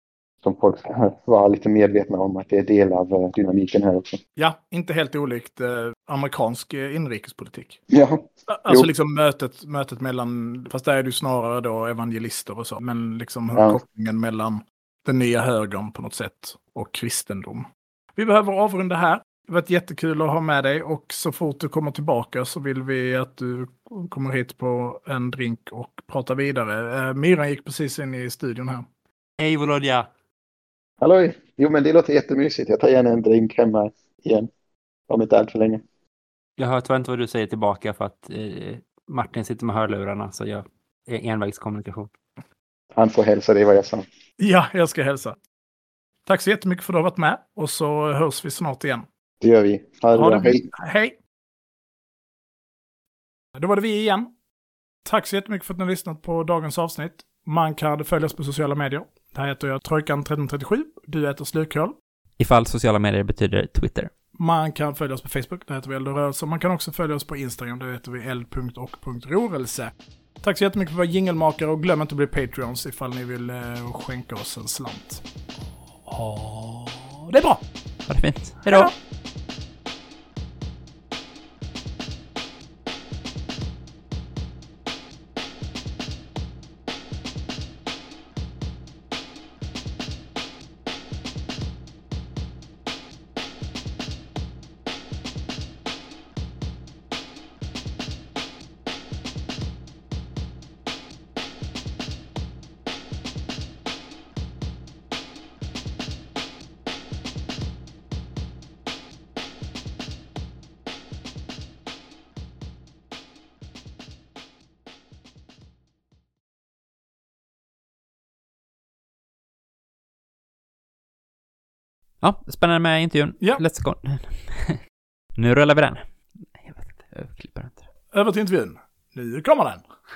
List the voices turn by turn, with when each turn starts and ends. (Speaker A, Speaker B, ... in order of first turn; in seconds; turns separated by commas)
Speaker A: 0.4-4.2, Speaker B: 4.4-7.8, Speaker A: 7.9-8.9, Speaker B: 8.5-28.9, Speaker C: 29.4-30.1, Speaker A: 31.0-34.5, Speaker A: 35.1-35.8, Speaker C: 36.6-42.1, Speaker A: 43.0-44.0, Speaker B: 44.4-45.4, Speaker B: 46.2-49.1, Speaker A: 49.4-50.6, Speaker B: 50.1-51.1, Speaker B: 53.5-54.3, Speaker B: 55.0-61.9, Speaker C: 62.4-64.1, Speaker B: 64.4-69.9, Speaker B: 70.4-75.2, Speaker B: 76.0-77.6, Speaker C: 78.1-78.9, Speaker B: 78.7-78.9, Speaker C: 122.2-124.8, Speaker C: 125.3-127.8, Speaker B: 128.1-129.8